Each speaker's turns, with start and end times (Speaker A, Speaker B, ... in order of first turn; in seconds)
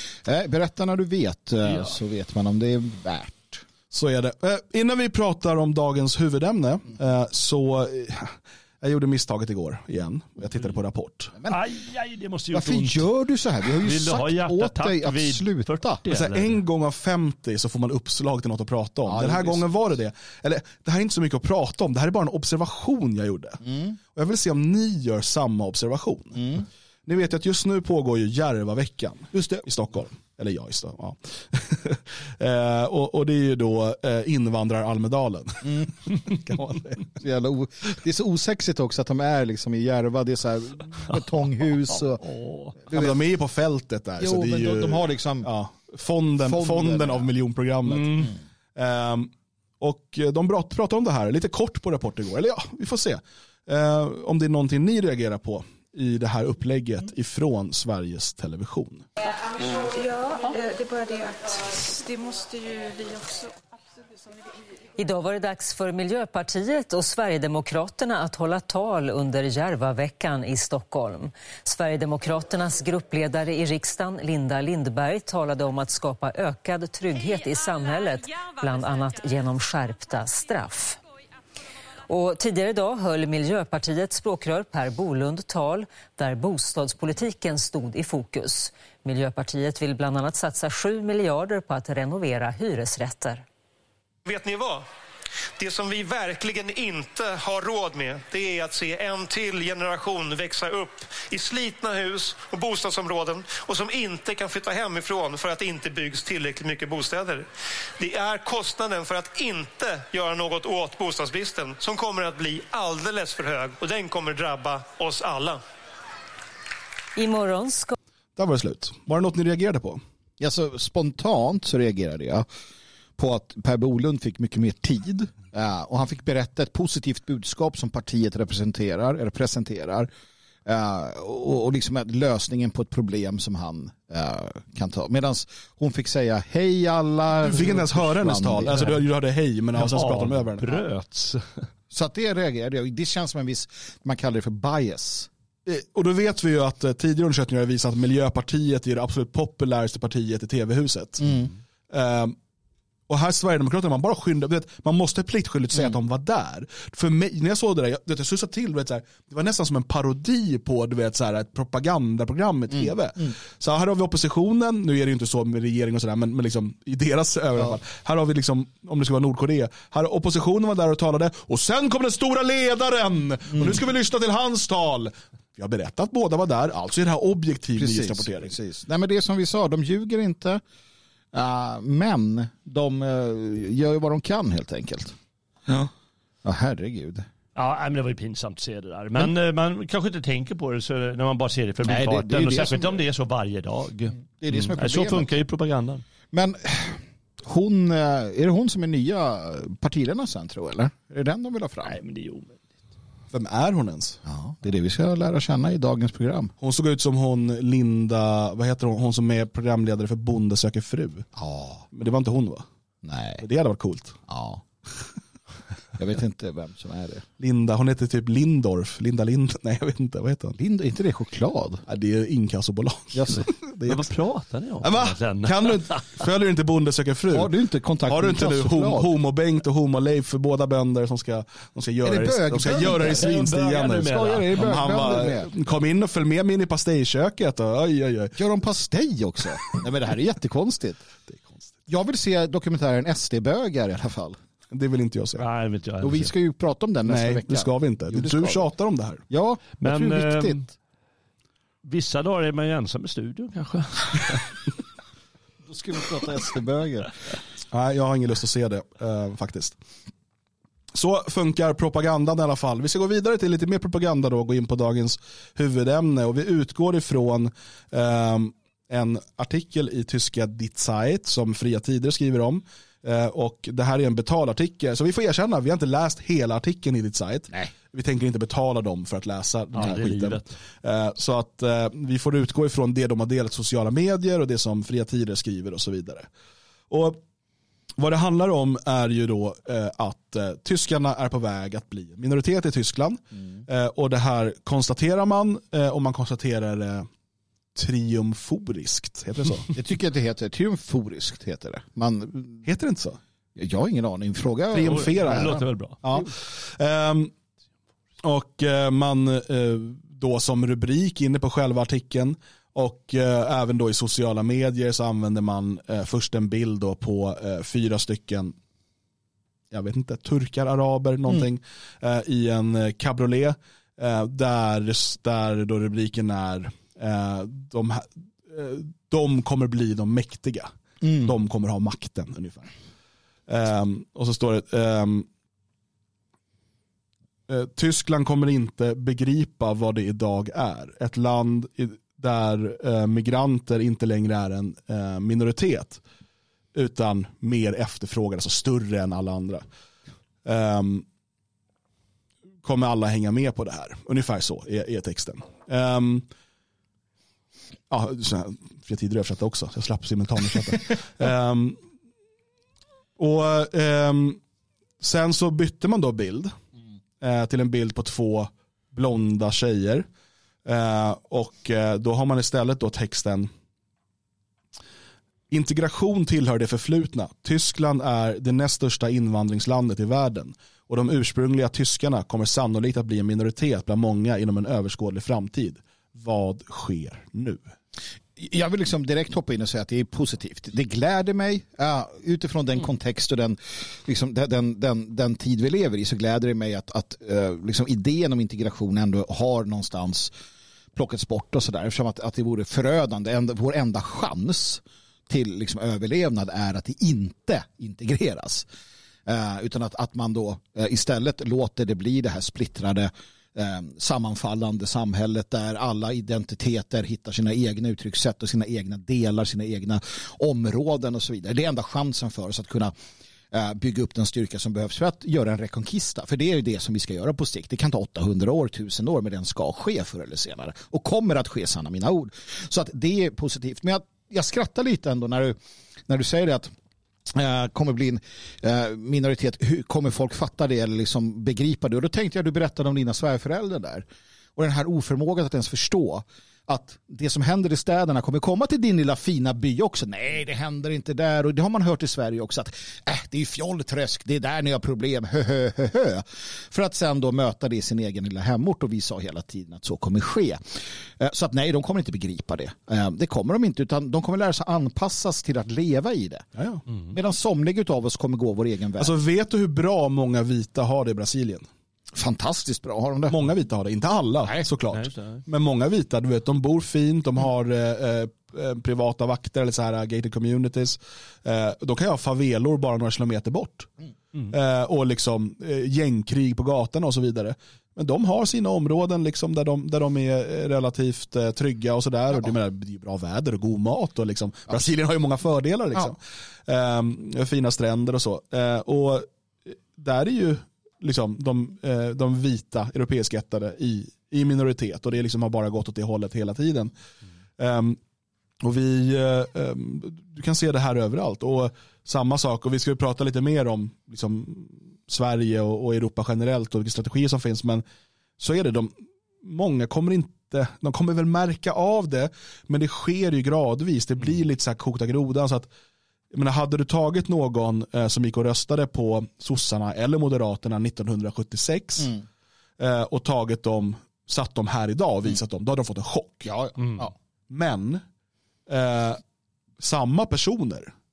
Speaker A: 0.2-3.6, 12.5-16.0, 19.1-19.6, 23.6-24.0, 26.4-26.6, 29.3-29.6, 35.6-35.9, 37.1-42.2, 42.8-43.2, 44.2-45.5, 46.4-47.3, 120.4-122.5, 123.2-130.1, 130.7-139.0, 141.9-145.3, 151.2-151.5, 162.7-163.3, 177.8-180.6, 181.3-185.2, 186.4-187.3, 191.8-193.0, 194.3-195.3, 196.3-202.0, 204.2-206.5, 211.4-211.8, 213.0-213.4, 214.3-214.6, 216.0-217.2, 220.6-221.8, 223.1-223.4, 227.3-229.1, 232.0-233.3, 233.9-235.5, 238.4-241.0, 241.9-244.4, 246.0-248.6, 249.3-250.7, 255.7-257.1, 299.7-302.6, 303.6-306.2, 331.0-331.3, 388.4-400.3, 400.9-408.7, 409.3-422.9, 423.5-435.6, 436.1-436.7, 437.3-444.1, 444.6-466.5, 467.1-469.1, 472.1-473.4, 536.5-537.1
Speaker B: 3.9-11.3, 16.1-23.6, 24.1-26.4, 27.1-37.1, 42.9-59.0, 118.4-120.0, 137.4-140.8, 145.7-151.3, 151.9-152.4, 153.1-178.5, 203.3-204.2, 206.6-211.3, 211.9-212.7, 213.4-214.2, 217.4-220.6, 221.9-224.0, 224.8-227.5, 228.1-238.4, 241.3-241.7, 244.7-245.4, 247.1-249.2, 257.7-259.8, 260.9-286.3, 286.9-287.2, 288.0-297.1, 297.8-299.7, 302.6-303.2, 304.7-307.3, 308.2-318.6, 319.7-332.7, 333.5-335.3, 337.5-346.0, 346.8-349.6, 350.4-351.1, 352.6-356.3, 357.9-361.8, 363.2-364.4, 365.0-366.5, 367.2-370.1, 370.6-373.5, 375.5-387.6, 466.6-466.8, 469.0-471.7, 473.3-483.9, 484.5-506.9, 507.6-508.0, 508.6-517.8, 518.4-518.9, 519.4-525.7, 526.3-532.2, 532.8-536.5, 537.5-538.0, 538.7-539.2, 539.8-540.9
Speaker C: 11.5-13.1, 13.8-16.6, 42.2-42.8, 47.9-48.3, 139.8-141.7, 187.6-196.0, 201.8-202.6, 223.8-226.1, 232.9-234.7, 245.4-246.3, 249.8-250.6, 251.8-254.5, 279.7-280.5, 304.9-306.0, 474.9-475.4
Speaker D: 59.4-63.5
Speaker E: 65.0-81.0, 82.1-93.5, 117.2-117.9
Speaker F: 94.3-94.9, 95.6-107.5, 108.0-115.6